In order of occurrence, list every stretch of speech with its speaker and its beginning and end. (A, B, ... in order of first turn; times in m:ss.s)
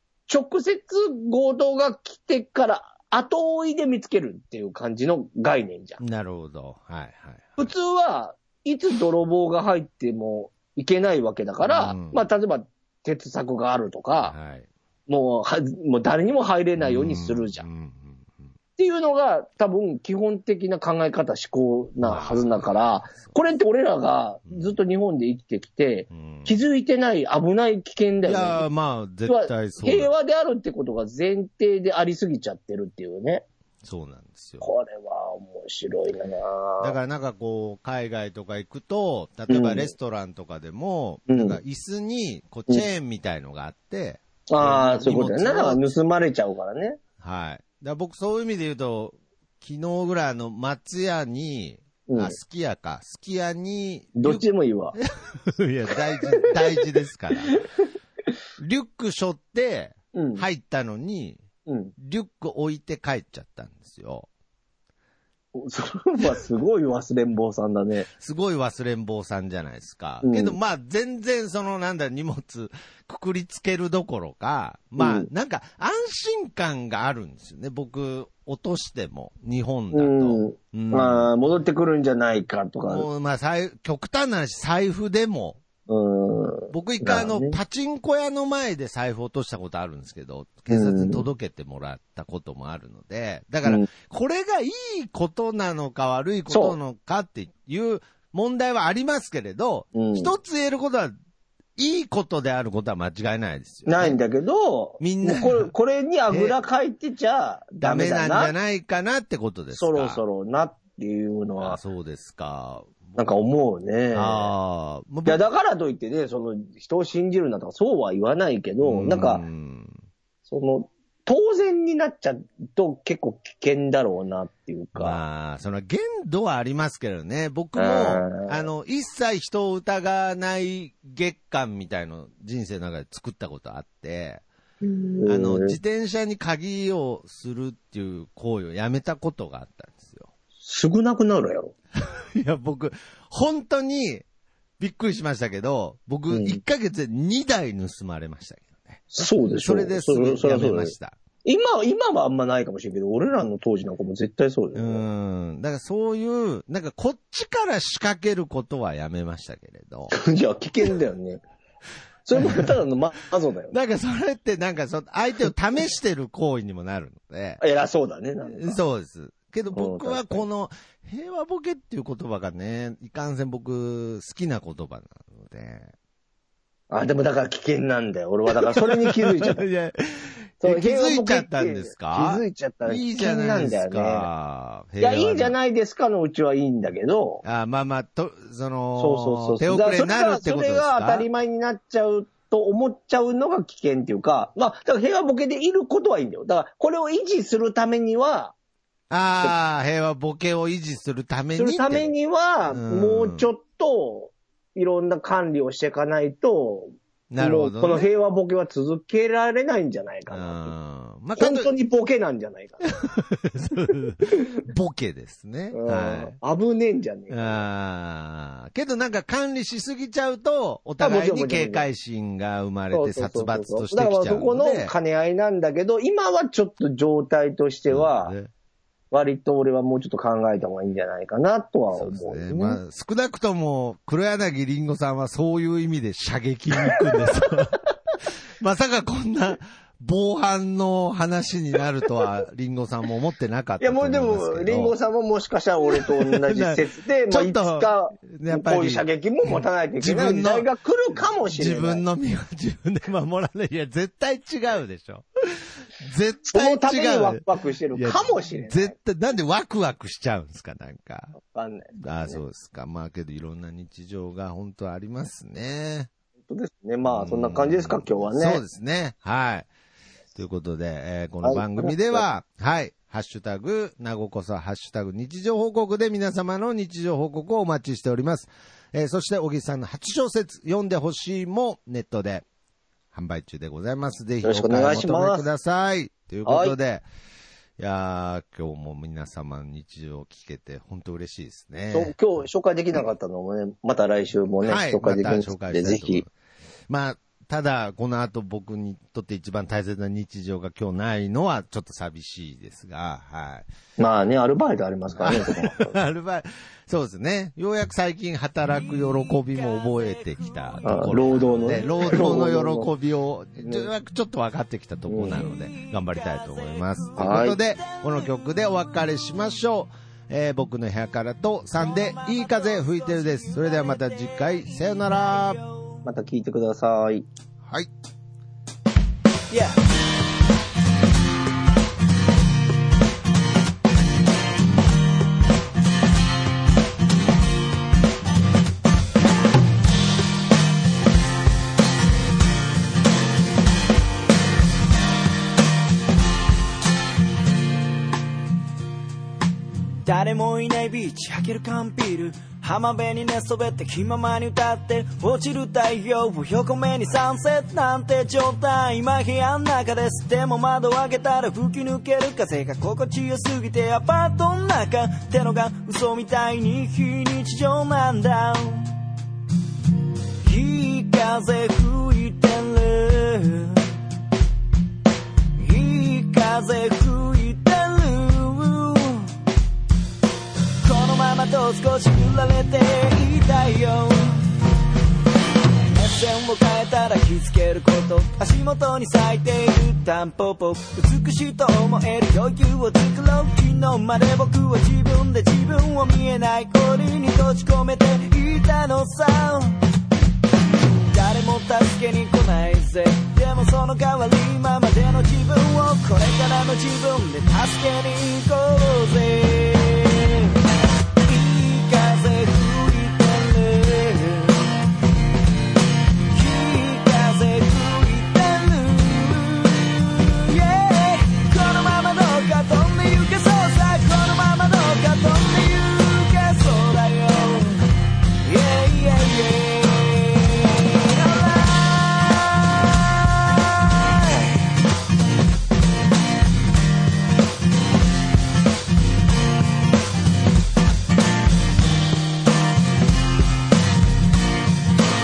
0:00.3-0:06.0 A
0:06.0-0:07.7 B
0:07.6-0:14.3 A
0:11.6-0:12.3 B
0:14.2-0:14.7 B
0:15.1-0:17.6 A
0:16.8-0:18.5 B
0:18.8-0:28.6 A
0:22.0-0:23.4 B
0:24.5-0:24.8 B
0:26.1-0:26.6 B
0:28.2-0:30.1 B
0:29.2-0:33.4 A
0:33.8-0:34.7 B
0:34.6-0:37.0 A
0:36.8-0:45.8 B
0:39.5-0:39.9 A
0:41.3-0:41.6 A
0:44.5-0:47.0 A
0:47.2-0:54.4 B
0:52.1-0:52.4 A
0:54.2-0:55.0 A
0:55.0-0:57.6 B
0:56.2-0:56.8 A
0:58.6-1:01.4 B
1:00.1-1:00.4 A
1:01.6-1:01.9 A
1:02.0-1:04.3 B
1:05.5-1:08.1 A
1:08.1-1:21.4 B
1:10.2-1:10.6 A
1:15.0-1:15.3 A
1:19.9-1:23.1 A
1:22.9-1:25.6 B
1:25.9-1:27.6 A
1:26.7-1:41.1 B
1:30.7-1:31.2 A
1:36.5-1:36.8 A
1:39.9-1:40.3 A
1:41.8-1:44.2 B
1:43.8-1:48.5 A
1:45.0-1:45.7 B
1:46.3-1:46.6 B
1:47.8-1:50.2 B
1:49.7-1:51.8 A
1:51.6-1:53.2 B
1:53.2-1:54.5 A
1:54.1-1:55.4 B
1:55.2-1:59.4 A
1:58.8-2:00.0 B
2:00.4-2:05.2 A
2:05.0-2:14.4 B
2:07.8-2:08.7 A
2:14.8-2:15.8 A
2:15.2-2:20.3 B
2:20.6-2:21.7 A
2:22.0-2:24.2 B
2:24.8-2:31.2 B
2:26.3-2:26.6 A
2:29.1-2:35.0 A
2:34.7-2:40.1 B
2:40.1-2:41.4 A
2:42.2-2:43.7 A
2:42.4-2:42.8 B
2:43.7-2:47.6 B
2:47.6-2:48.8 A
2:48.5-2:55.9 B
2:49.7-2:50.5 A
2:56.9-2:59.7 A
2:58.6-3:05.5 B
3:00.6-3:04.3 A
3:05.0-3:07.4 A
3:07.4-3:11.3 B
3:09.0-3:18.5 A
3:19.1-3:22.1 B
3:21.5-3:30.7 A
3:22.7-3:23.5 B
3:27.3-3:28.1 B
3:30.3-3:31.7 B
3:31.4-3:33.0 A
3:33.1-3:36.4 B
3:35.7-3:37.6 A
3:37.3-3:44.9 B
3:41.0-3:41.9 A
3:42.9-3:48.3 A
3:47.9-3:48.5 B
3:49.1-3:52.8 A
3:51.9-3:57.8 B
3:56.8-3:57.4 A
3:58.6-4:05.0 B
4:03.8-4:12.0 A
4:05.9-4:21.3 B
4:16.5-4:18.9 A
4:21.4-4:22.4 A
4:22.0-4:26.1 B
4:26.5-4:28.6 A
4:27.0-4:29.7 B
4:30.3-4:42.4 B
4:31.4-4:32.2 A
4:43.1-4:47.0 B
4:44.4-4:45.5 A
4:46.4-4:46.8 A
4:47.8-4:52.1 B
4:51.9-4:56.2 A
4:54.6-4:56.3 B
4:56.9-5:03.7 B
5:04.0-5:06.0 A
5:05.2-5:25.6 B
5:08.6-5:12.2 C
5:10.8-5:12.9 A
5:13.6-5:13.9 A
5:15.1-5:15.4 A
5:15.3-5:18.8 C
5:17.2-5:17.6 A
5:21.8-5:26.0 C
5:26.0-5:27.3 A
5:27.6-5:27.9 B
5:29.5-5:29.8 C
5:50.0-6:08.9 C
6:10.4-6:13.9 C
6:15.6-6:19.4 C
6:20.8-6:24.5 C
6:25.9-6:39.8 C
6:41.1-6:50.6 C
6:51.2-6:54.8 C
6:56.3-7:07.9 C
7:08.4-7:14.6 C